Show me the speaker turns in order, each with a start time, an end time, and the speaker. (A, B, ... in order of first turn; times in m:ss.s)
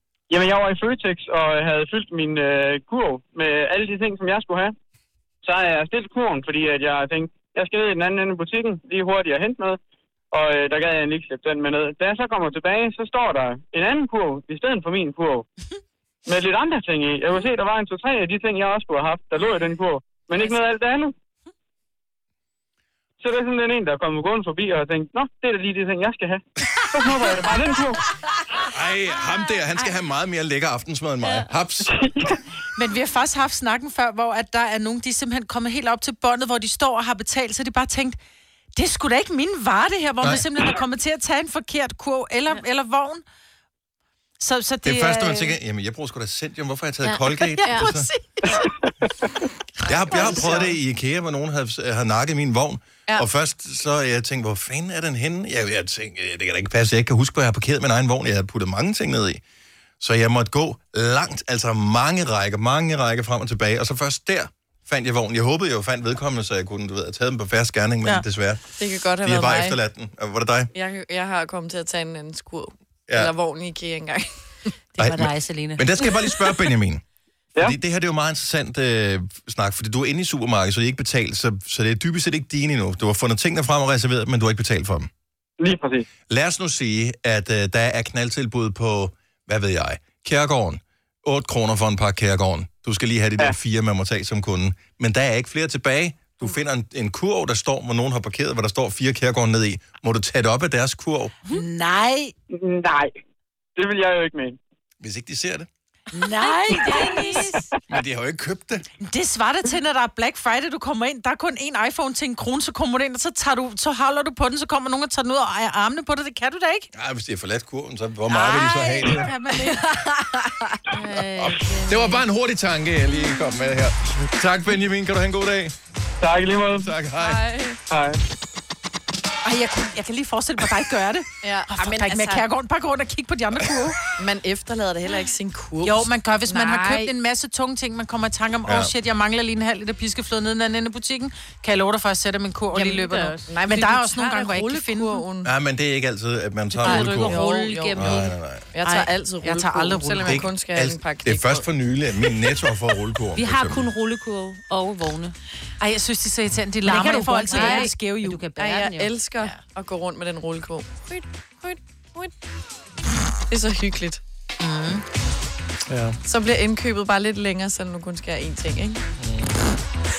0:00.3-0:04.8 A
0:05.4-0:09.8 A
0:10.3-0:15.5 A
0:16.3-0:21.1 A
0:23.2-0:28.0 A
0:28.6-0:31.9 B
0:31.9-0:32.4 A
0:32.8-0:38.2 C
0:38.8-0:43.2 C
0:44.4-0:45.6 C
0:44.8-0:48.1 B
0:47.3-0:48.2 C
0:47.6-0:47.9 D
0:49.8-0:59.4 B
0:50.1-0:50.4 C
0:50.1-0:50.7 D
1:00.0-1:08.6 B
1:08.8-1:09.8 D
1:09.2-1:10.7 B
1:10.7-1:14.3 D
1:15.0-1:16.4 E
1:15.0-1:17.0 B
1:17.6-1:25.1 B
1:25.6-1:26.1 A
1:26.3-1:41.4 B
1:41.5-1:42.3 C
1:42.5-1:43.2 A
1:43.8-1:44.6 A
1:45.0-1:45.7 B
1:46.1-1:47.6 C
1:46.7-1:47.4 E
1:47.9-1:48.8 B
1:49.0-1:56.9 C
1:56.9-1:59.3 B
1:58.3-2:00.5 C
2:00.9-2:02.2 E
2:01.4-2:05.8 B
2:06.2-2:06.9 A
2:06.7-2:07.5 B
2:07.2-2:07.8 D
2:07.9-2:08.2 A
2:09.4-2:14.0 C
2:11.4-2:12.4 D
2:14.2-2:17.1 D
2:15.8-2:25.2 C
2:18.7-2:18.9 B
2:22.8-2:23.5 E
2:23.5-2:25.5 D
2:25.4-2:28.7 B
2:26.8-2:28.3 E
2:26.8-2:31.7 D
2:28.8-2:29.1 E
2:29.4-2:30.4 C
2:30.2-2:33.9 B
2:33.4-2:35.4 E
2:35.8-2:38.4 C
2:36.8-2:39.1 E
2:37.5-2:37.9 D
2:38.6-2:42.3 D
2:43.5-2:44.2 D
2:44.6-2:45.0 C
2:45.9-2:46.2 B
2:46.2-2:49.0 D
2:49.2-2:49.6 B